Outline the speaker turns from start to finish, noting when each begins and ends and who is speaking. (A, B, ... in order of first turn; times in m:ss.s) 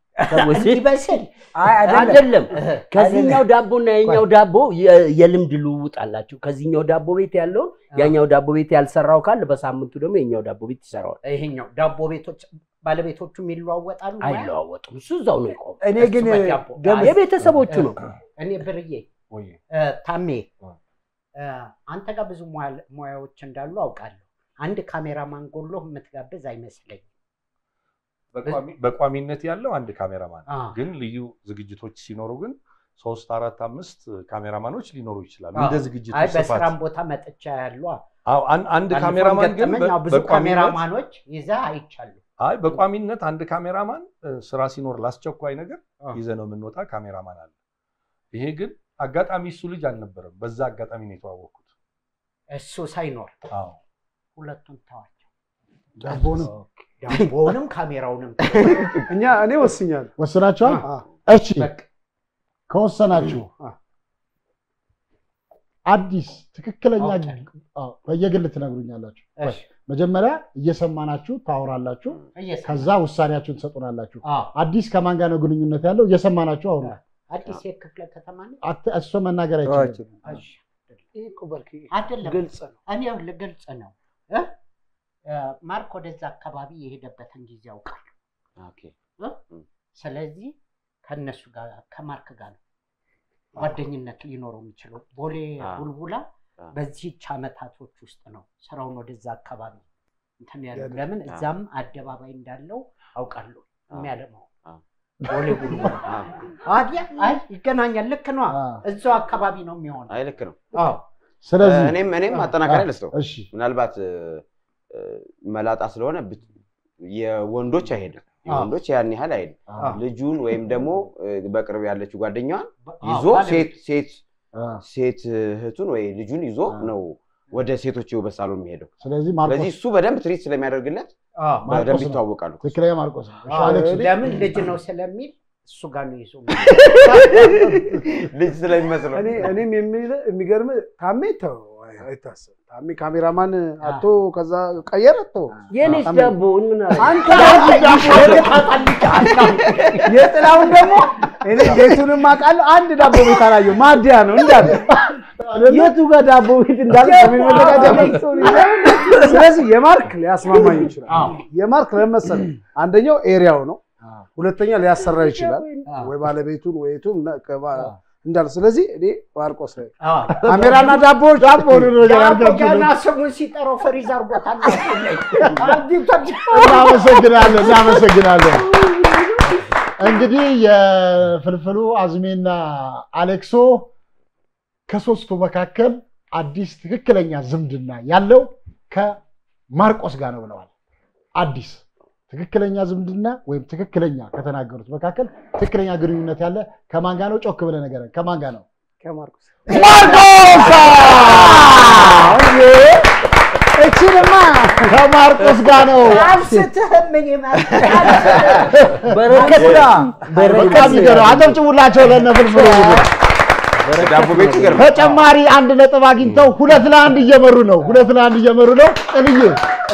0:00.2-0:02.8 A
0:00.3-0:00.8 B
0:01.6-0:02.2 C
0:01.9-0:11.2 B
0:03.0-0:03.4 C
0:11.2-0:14.5 A
0:14.2-0:15.8 B
0:15.8-0:17.2 C
0:16.0-0:17.2 A
0:16.9-0:18.0 B
0:17.7-0:19.1 A
0:19.3-0:19.6 D
0:19.7-0:20.5 A
0:21.4-0:27.0 A
0:28.3-0:36.8 D
0:30.5-0:30.8 A
0:35.5-0:38.0 A
0:38.3-0:40.8 D
0:38.9-0:42.2 A
0:42.4-0:47.5 D
0:48.3-0:51.7 D
0:52.5-0:53.4 A
0:53.5-0:53.8 D
0:54.4-0:55.3 A
0:56.0-0:56.5 E
0:56.1-0:59.0 A
0:58.7-0:59.0 F
0:59.1-1:00.1 G
1:00.2-1:01.7 E
1:00.6-1:01.0 G
1:01.6-1:01.8 A
1:02.7-1:03.5 E
1:05.9-1:16.9 E
1:07.0-1:07.4 A
1:09.4-1:09.6 A
1:12.4-1:12.9 A
1:14.2-1:14.5 A
1:16.8-1:18.6 A
1:18.6-1:20.1 E
1:19.7-1:20.4 C
1:20.2-1:21.0 A
1:21.2-1:22.8 G
1:21.9-1:24.5 A
1:25.3-1:28.1 A
1:28.6-1:29.0 F
1:29.9-1:32.6 A
1:33.6-1:36.2 A
1:35.6-1:35.9 F
1:36.8-1:39.8 A
1:40.4-1:44.5 A
1:40.7-1:41.1 G
1:45.3-1:46.1 A
1:45.4-1:45.9 E
1:46.0-1:46.3 F
1:46.6-1:50.2 A
1:48.5-1:48.8 E
1:50.1-1:50.8 F
1:50.8-1:51.0 A
1:51.4-1:52.0 E
1:51.6-2:04.2 F
1:52.6-1:53.5 E
1:58.5-1:58.7 A
1:59.7-2:00.0 E
2:02.8-2:03.8 A
2:04.5-2:04.8 E
2:04.8-2:08.9 F
2:09.0-2:09.7 E
2:09.4-2:11.1 F
2:11.4-2:11.7 A
2:11.7-2:14.1 E
2:11.7-2:12.7 F
2:13.5-2:14.5 G
2:13.5-2:18.0 A
2:16.8-2:18.0 G
2:18.3-2:19.5 F
2:19.1-2:26.4 G
2:25.7-2:27.6 B
2:27.0-2:29.3 G
2:27.3-2:31.1 A
2:27.6-2:28.5 E
2:30.1-2:34.9 G
2:34.6-2:36.0 E
2:36.0-2:38.3 B
2:36.8-2:43.8 G
2:37.0-2:39.1 A
2:41.1-2:41.4 A
2:44.4-2:51.4 G
2:45.8-2:46.1 A
2:50.0-2:50.8 A
2:50.5-2:52.9 E
2:52.0-2:57.8 A
2:56.6-2:58.7 E
2:58.7-2:59.6 B
3:00.0-3:03.9 E
3:04.9-3:09.2 E
3:09.7-3:10.7 E
3:11.4-3:18.6 E
3:19.0-3:20.3 G
3:19.7-3:22.4 E
3:20.0-3:22.3 A
3:21.6-3:22.4 G
3:23.8-3:25.0 G
3:24.9-3:26.4 E
3:26.0-3:30.1 A
3:27.7-3:28.5 F
3:28.3-3:31.6 B
3:29.4-3:30.9 C
3:29.6-3:30.0 F
3:30.5-3:33.1 E
3:30.9-3:31.2 A
3:32.6-3:32.9 B
3:33.8-3:34.9 B
3:34.0-3:35.1 F
3:34.7-3:39.6 E